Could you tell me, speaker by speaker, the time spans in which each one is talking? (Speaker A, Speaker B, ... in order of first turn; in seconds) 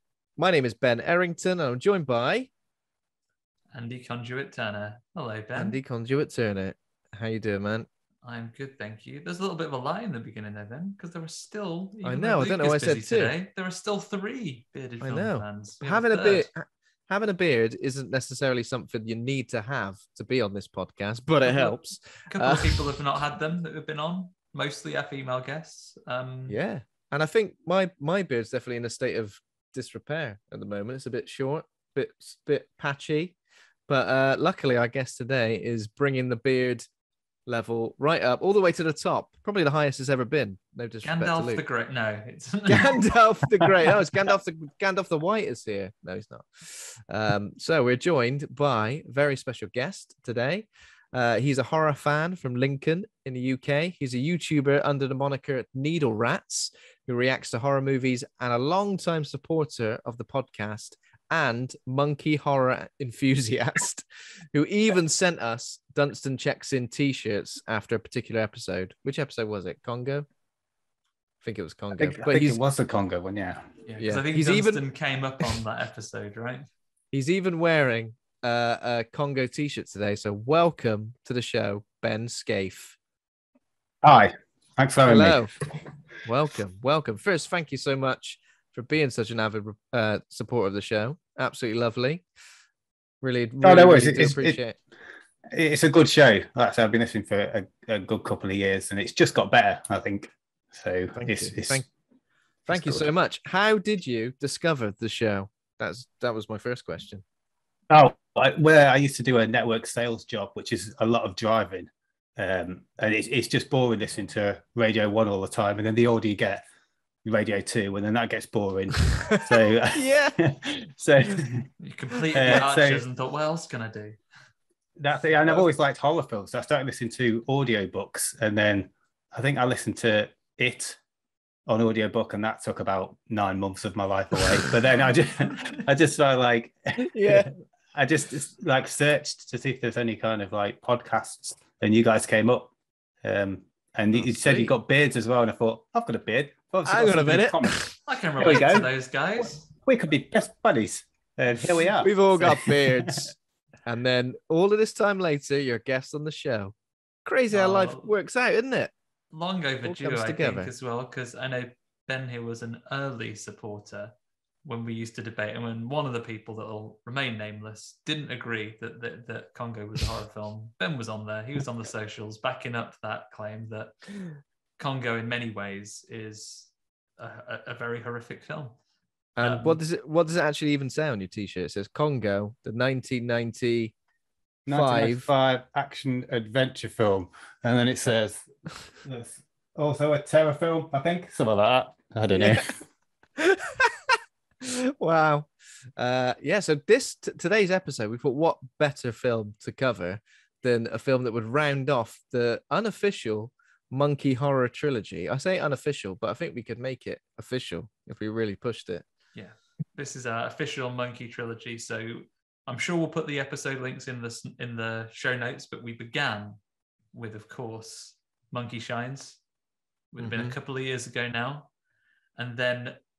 Speaker A: 0.4-2.5, 5.5-7.9, 12.0-13.4, 15.0-23.0, 26.5-33.4, 33.9-36.9, 37.5-41.6, 42.7-70.3, 71.4-72.6, 74.0-74.8, 77.1-83.0, 85.0-85.6, 86.2-92.2, 93.2-94.8, 101.2-101.9, 102.7-107.2, 119.3-120.4, 137.0-137.5, 144.1-144.7, 146.8-147.9, 151.9-153.3, 153.8-158.9, 159.8-160.7, 179.4-183.9, 184.7-185.3, 192.3-192.7, 193.4-209.1, 220.2-220.6
Speaker B: 3.7-5.8, 8.2-16.5, 21.4-26.6, 41.0-43.9, 73.9-76.7, 121.8-124.2, 148.1-149.7, 157.5-158.1, 159.3-164.1, 164.7-173.9, 174.8-178.8, 179.4-179.8, 209.3-216.6, 217.1-219.4, 220.1-221.7, 222.4-223.0
Speaker C: 72.0-73.8, 84.0-85.4, 93.6-94.6, 95.5-101.8, 102.7-103.1, 107.9-116.6, 117.2-121.7, 122.3-123.0, 125.0-131.0, 131.7-142.7, 143.2-147.8, 148.4-148.9, 149.8-153.3, 184.7-192.8